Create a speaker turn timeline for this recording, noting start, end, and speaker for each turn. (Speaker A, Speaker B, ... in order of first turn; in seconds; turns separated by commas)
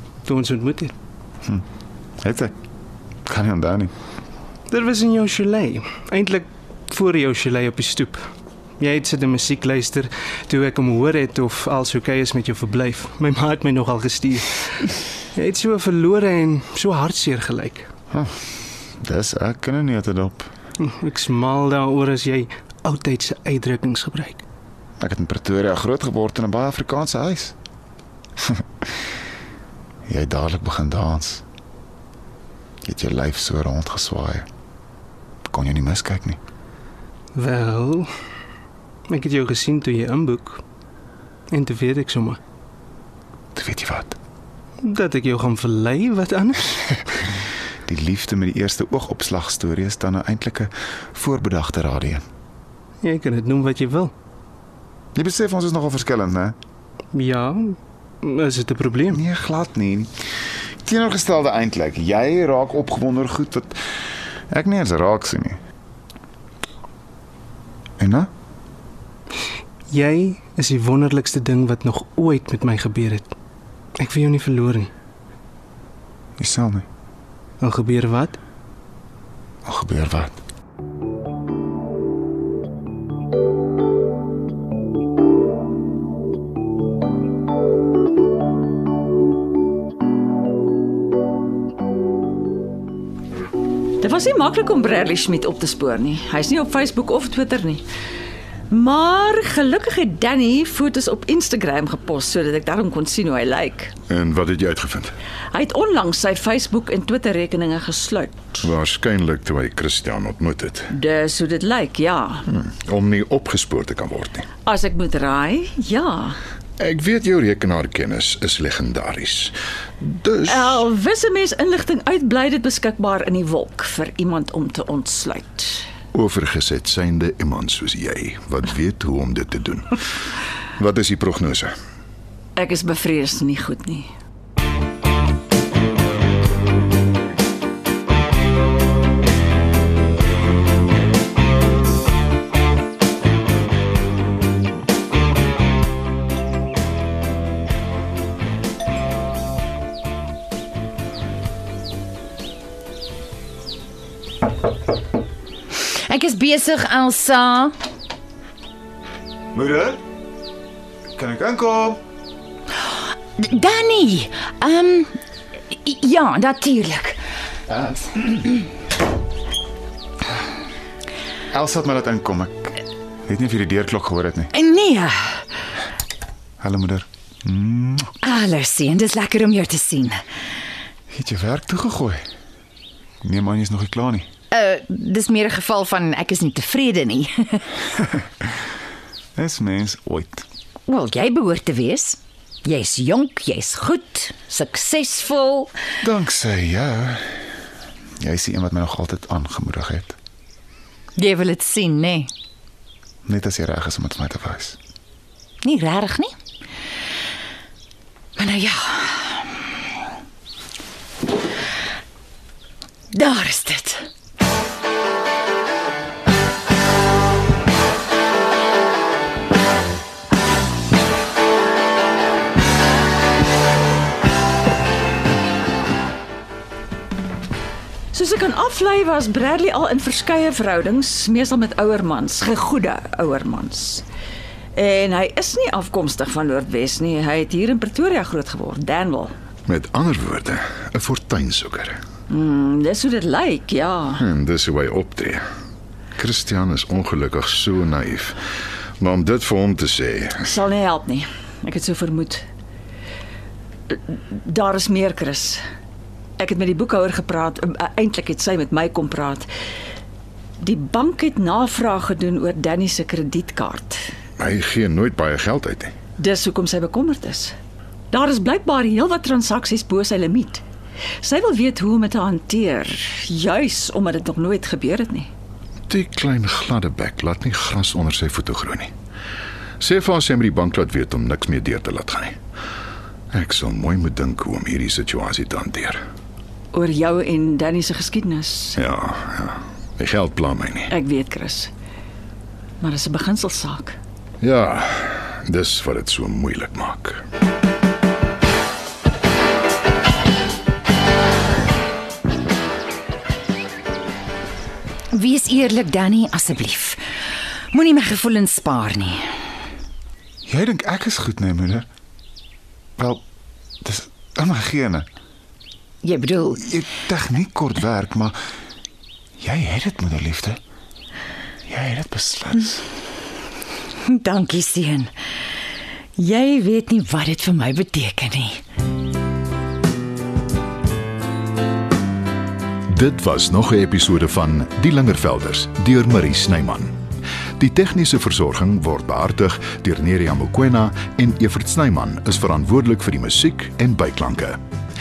Speaker A: 0.3-0.9, Speaker B: 2.2-2.5, Speaker B: 3.2-3.9, Speaker A: 4.7-8.2, Speaker A: 8.8-14.5, Speaker A: 15.4-17.9, Speaker B: 18.1-18.4, Speaker B: 19.0-20.5, Speaker A: 20.8-24.4, Speaker B: 25.0-27.5, Speaker B: 28.4-28.6, Speaker B: 30.1-31.4, Speaker B: 32.8-34.5, Speaker B: 35.5-36.4, Speaker A: 37.4-38.0, Speaker A: 39.1-40.6, Speaker A: 41.5-42.4, Speaker B: 43.5-44.2, Speaker A: 44.8-46.6, Speaker B: 47.9-52.2, Speaker A: 53.0-54.1, Speaker B: 55.1-56.5, Speaker A: 57.1-57.5, Speaker A: 58.2-59.0, Speaker B: 59.1-60.1, Speaker B: 60.8-63.8, Speaker B: 64.5-65.6, Speaker B: 68.0-68.3, Speaker A: 69.9-73.3, Speaker A: 74.0-74.9, Speaker B: 76.4-76.8, Speaker A: 77.6-78.4, Speaker B: 79.6-80.4, Speaker C: 94.0-97.8, Speaker C: 98.7-103.9, Speaker D: 104.1-105.1, Speaker C: 105.5-108.6, Speaker D: 108.6-110.9, Speaker C: 110.9-112.4, Speaker D: 112.5-114.5, Speaker C: 114.7-116.4, Speaker D: 116.8-120.8, Speaker C: 120.5-125.9, Speaker D: 126.1-130.0, Speaker D: 130.8-131.7, Speaker C: 132.6-134.1, Speaker E: 155.8-157.7, Speaker B: 159.5-160.0, Speaker B: 161.1-162.0, Speaker E: 163.4-165.1, Speaker E: 165.7-167.2, Speaker B: 167.9-168.2, Speaker B: 171.5-174.5, Speaker E: 174.5-175.4, Speaker B: 176.6-178.1, Speaker E: 178.2-180.2, Speaker B: 181.1-182.2, Speaker B: 183.2-184.2, Speaker E: 184.5-187.8, Speaker B: 189.3-190.4, Speaker E: 190.9-195.7, Speaker B: 196.0-197.5, Speaker B: 198.2-200.2, Speaker E: 201.2-202.3, Speaker B: 203.2-204.8, Speaker E: 205.6-206.3, Speaker E: 208.3-209.6, Speaker E: 213.1-214.1, Speaker C: 228.1-234.0, Speaker C: 234.7-239.3, Speaker D: 239.7-242.0, Speaker C: 242.3-244.2, Speaker D: 244.2-245.4, Speaker D: 246.2-248.4, Speaker D: 249.0-250.5, Speaker C: 250.4-252.4, Speaker C: 253.9-255.6, Speaker C: 256.4-259.5, Speaker C: 260.6-264.0, Speaker D: 264.4-265.9, Speaker C: 266.2-267.5, Speaker C: 268.1-270.6, Speaker C: 271.2-275.3, Speaker D: 275.9-278.9, Speaker D: 279.8-282.4, Speaker D: 283.3-286.0, Speaker C: 286.7-288.8, Speaker D: 288.8-290.9, Speaker C: 290.9-291.7, Speaker C: 292.8-293.9, Speaker D: 294.4-297.2, Speaker E: 305.1-307.0, Speaker E: 307.7-309.2, Speaker B: 310.4-311.9, Speaker B: 313.8-315.1, Speaker E: 316.0-316.6, Speaker B: 316.5-318.4, Speaker B: 319.4-320.6, Speaker B: 321.6-322.8, Speaker E: 324.1-325.1, Speaker E: 326.2-328.6, Speaker D: 332.9-336.9, Speaker D: 337.6-344.6